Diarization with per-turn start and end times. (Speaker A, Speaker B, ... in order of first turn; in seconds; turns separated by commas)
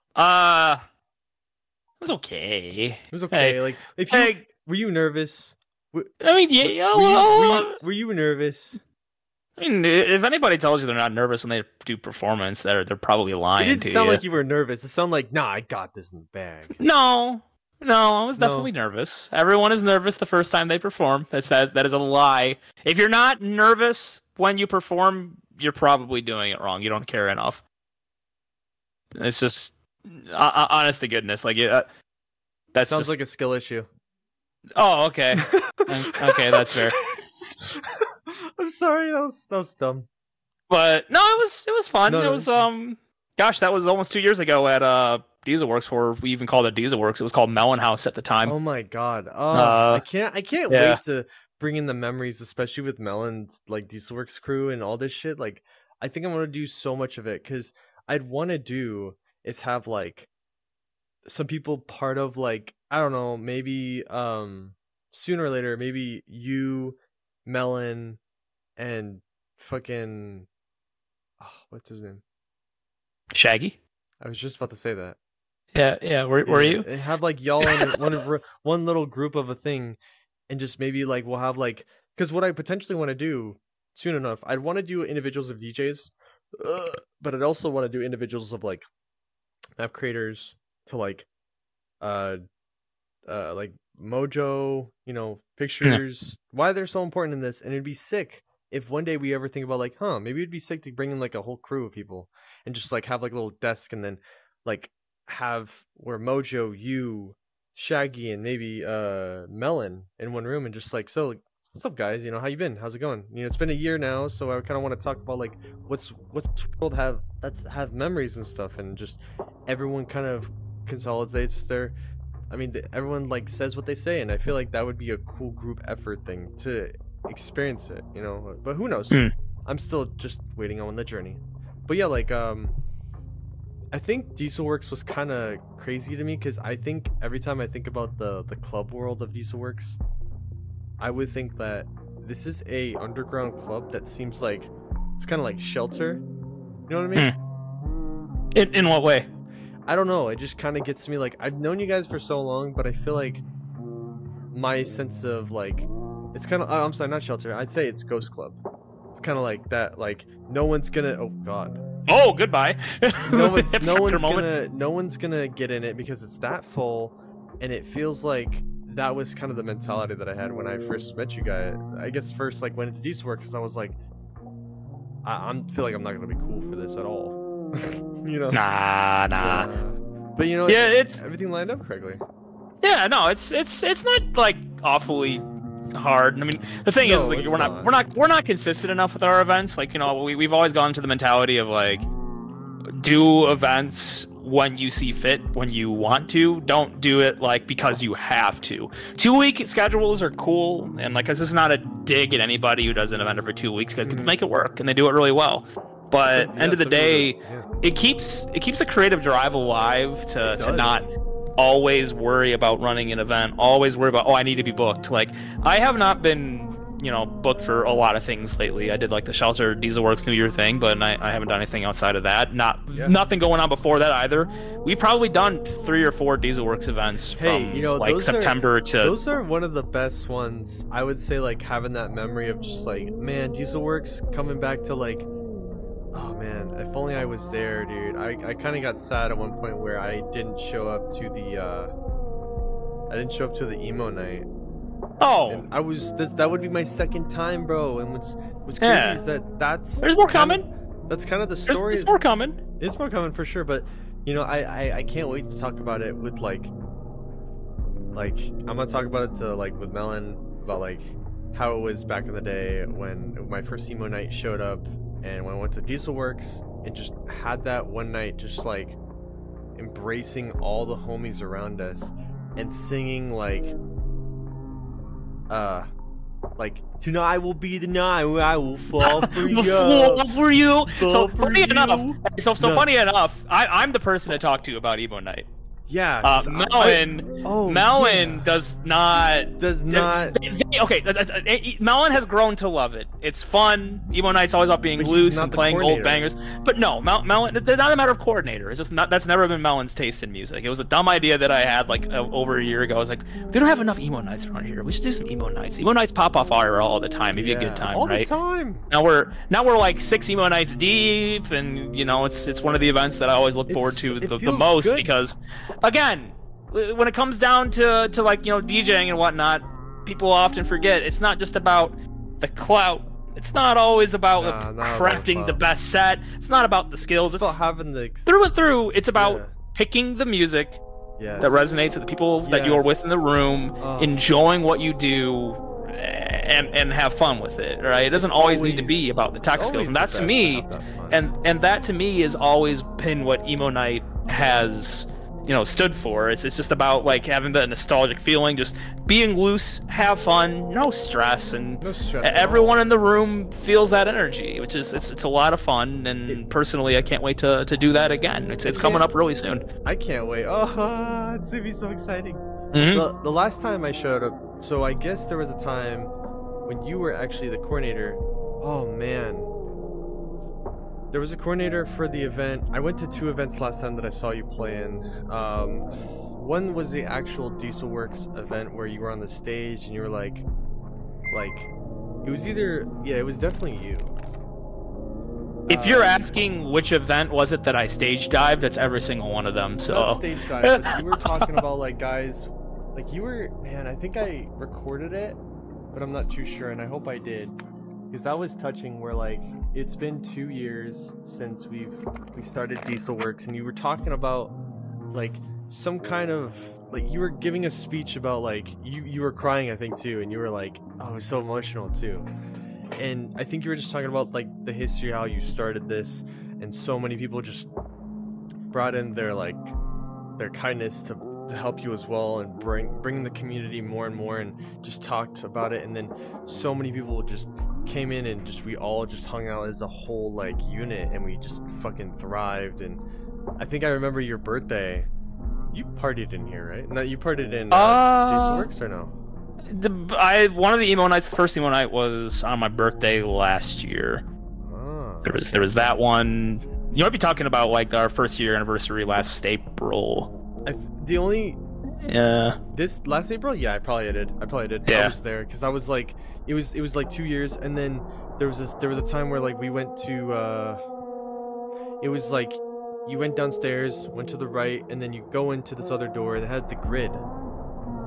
Speaker A: 0.1-0.8, Speaker A: 2.0-3.6, Speaker B: 3.1-6.1, Speaker A: 4.1-4.4, Speaker A: 6.2-7.7, Speaker B: 6.6-8.8, Speaker A: 9.6-14.2, Speaker B: 13.6-16.8, Speaker A: 16.8-27.6, Speaker B: 18.3-18.7, Speaker A: 29.1-31.8, Speaker A: 32.7-33.1, Speaker B: 32.8-33.9, Speaker A: 34.8-37.0, Speaker B: 35.4-38.0, Speaker B: 38.6-40.1, Speaker A: 40.7-48.5, Speaker B: 42.1-42.6, Speaker B: 48.4-60.3, Speaker A: 49.5-50.0, Speaker A: 50.7-51.0, Speaker B: 61.2-68.2, Speaker B: 68.8-70.5, Speaker B: 71.4-72.2, Speaker A: 73.3-73.8, Speaker B: 74.2-75.2, Speaker A: 75.7-76.8, Speaker B: 76.4-80.0, Speaker A: 77.6-77.9, Speaker B: 80.5-88.8, Speaker B: 89.8-91.3, Speaker B: 92.0-92.4, Speaker B: 93.3-121.9, Speaker B: 122.5-132.7, Speaker B: 133.9-140.0, Speaker B: 141.0-146.2, Speaker B: 146.9-147.3, Speaker A: 148.5-149.3, Speaker B: 149.9-153.4, Speaker B: 154.5-158.6, Speaker B: 159.1-161.8, Speaker A: 162.1-164.5, Speaker B: 163.3-174.0, Speaker B: 175.2-178.6, Speaker A: 178.5-179.7, Speaker B: 179.4-182.2, Speaker A: 180.7-181.2, Speaker A: 182.8-185.4, Speaker A: 185.9-192.1, Speaker B: 187.0-187.9, Speaker A: 193.0-229.2, Speaker B: 204.0-204.3, Speaker B: 206.2-207.7, Speaker B: 210.4-211.1, Speaker B: 227.4-235.3, Speaker B: 236.1-241.9, Speaker B: 243.1-244.5, Speaker A: 245.2-245.7, Speaker B: 245.5-252.1, Speaker A: 248.8-249.2, Speaker A: 250.0-250.7, Speaker A: 251.7-252.6, Speaker B: 252.8-256.7, Speaker B: 258.1-269.0, Speaker B: 269.8-273.7, Speaker B: 275.5-275.9, Speaker B: 276.6-280.3, Speaker A: 279.0-285.5, Speaker B: 280.9-282.9, Speaker B: 285.9-288.5, Speaker A: 286.2-308.3, Speaker B: 289.6-290.4, Speaker B: 295.0-296.3, Speaker B: 307.3-308.9, Speaker A: 308.9-327.6, Speaker B: 313.7-315.1, Speaker B: 324.4-325.6, Speaker B: 327.2-328.3, Speaker A: 328.3-330.8, Speaker B: 329.1-329.5, Speaker B: 331.2-331.7, Speaker A: 331.4-359.6, Speaker B: 332.4-333.2, Speaker B: 333.8-334.2, Speaker B: 338.1-341.2, Speaker B: 351.8-352.9, Speaker B: 358.6-359.1, Speaker B: 359.8-366.1, Speaker A: 362.7-363.0, Speaker B: 366.6-369.5, Speaker B: 371.1-380.4, Speaker B: 381.3-381.7, Speaker B: 382.2-384.1, Speaker B: 385.7-386.1, Speaker A: 385.7-391.6, Speaker B: 389.9-395.4, Speaker B: 395.9-397.5, Speaker B: 398.1-404.5, Speaker B: 405.1-412.3, Speaker B: 413.0-417.7, Speaker B: 418.7-419.7, Speaker B: 420.4-433.0, Speaker B: 433.6-435.1, Speaker B: 435.7-439.1, Speaker A: 437.7-438.7, Speaker A: 439.7-444.2, Speaker B: 444.6-445.9, Speaker A: 445.2-450.3, Speaker B: 450.6-451.6, Speaker A: 452.0-452.6, Speaker B: 452.7-460.8, Speaker A: 454.9-455.1, Speaker B: 462.0-467.2